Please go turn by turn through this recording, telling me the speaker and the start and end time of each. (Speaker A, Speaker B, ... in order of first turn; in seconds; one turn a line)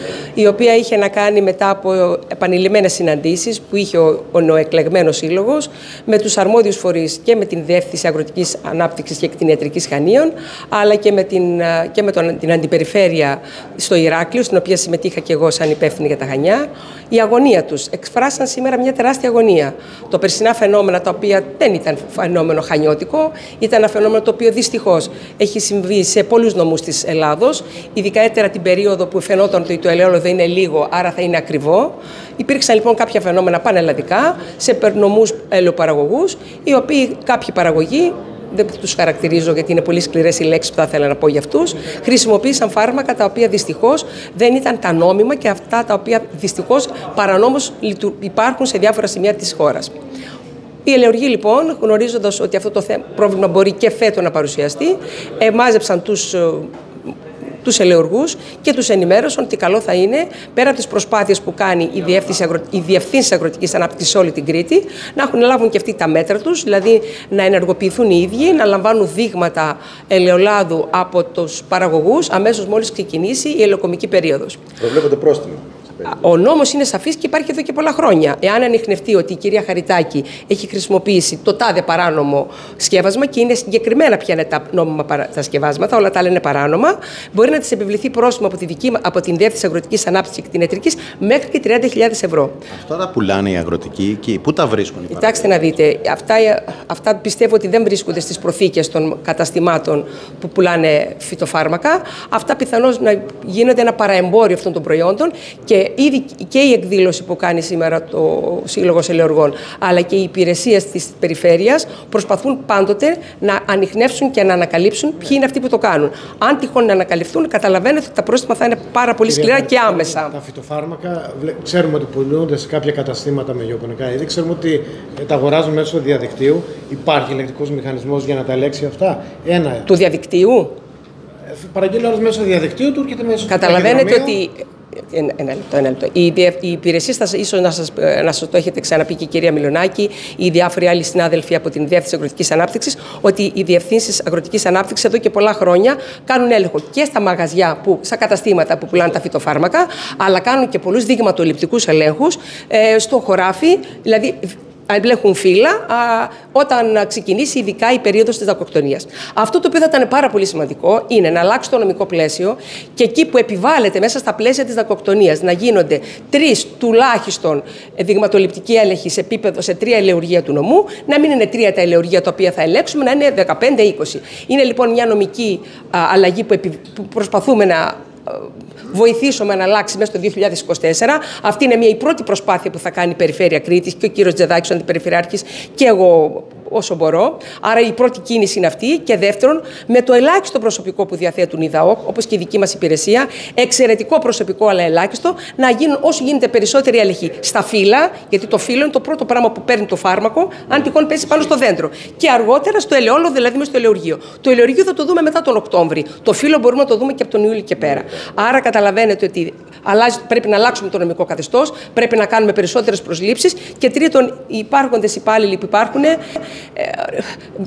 Speaker A: 0.3-49.9
Speaker A: 50.8-56.7
Speaker A: 57.6-74.6
Speaker B: 74.8-76.0
Speaker A: 76.0-92.6
Speaker B: 92.7-95.5
Speaker A: 95.1-120.3
Speaker C: 119.2-129.9
Speaker A: 129.8-130.7
Speaker C: 131.5-134.4
Speaker A: 133.5-134.6
Speaker A: 135.1-216.2
Speaker A: 216.7-217.4